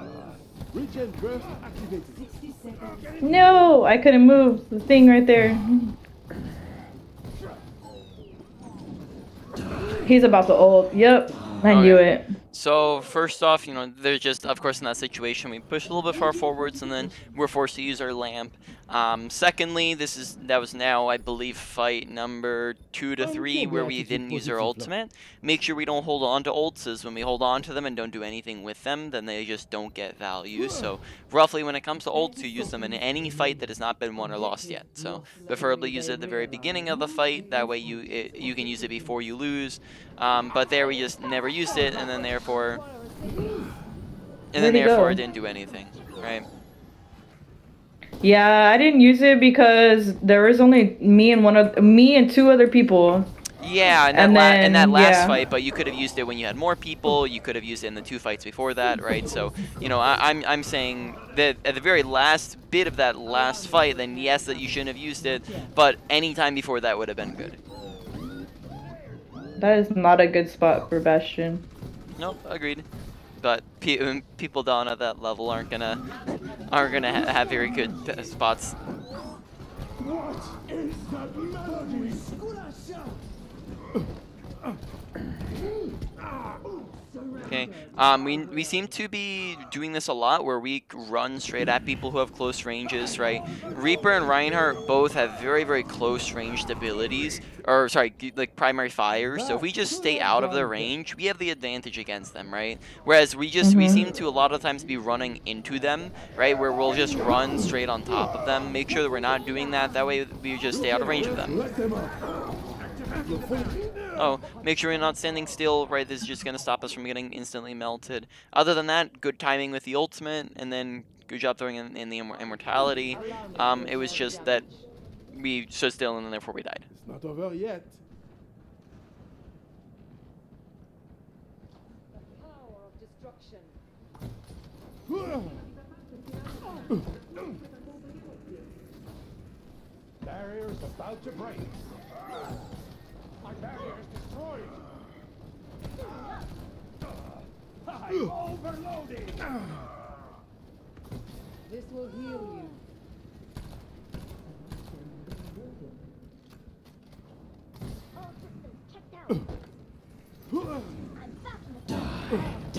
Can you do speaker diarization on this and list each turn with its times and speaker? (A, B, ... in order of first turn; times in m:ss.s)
0:00.7-0:02.2 A
0:02.1-0:03.6 B
0:03.2-0:05.9 C
0:10.0-0:12.3 C
0:11.6-0:42.8 D
0:23.2-0:24.9 A
0:32.5-0:33.6 B
0:34.2-0:39.2 B
0:40.8-0:43.7 E
0:44.5-0:46.4 D
0:44.5-0:45.2 C
0:48.2-0:53.3 C
0:53.6-1:07.6 D
0:54.1-0:55.4 C
1:03.3-1:05.7 B
1:09.6-1:11.6 C
1:12.2-1:12.8 D
1:13.4-1:16.0 D
1:16.7-1:18.8 D
1:20.0-1:22.2 A
1:21.1-1:21.5 F
1:27.2-1:28.9 B
1:27.4-1:51.7 D
1:39.3-1:40.9 A
1:43.6-1:44.1 C
1:50.8-1:52.2 A
1:52.8-1:53.9 F
1:53.2-1:54.0 A
1:54.2-2:04.6 D
2:03.1-2:04.8 E
2:03.2-2:04.6 B
2:05.3-2:06.9 D
2:06.9-2:08.0 A
2:12.2-2:13.8 E
2:16.2-2:18.5 E
2:20.2-2:21.9 F
2:23.4-2:24.8 F
2:27.8-2:29.6 F
2:31.6-2:32.8 E
2:34.4-2:36.0 B
2:38.2-2:39.4 E
2:41.2-2:42.4 E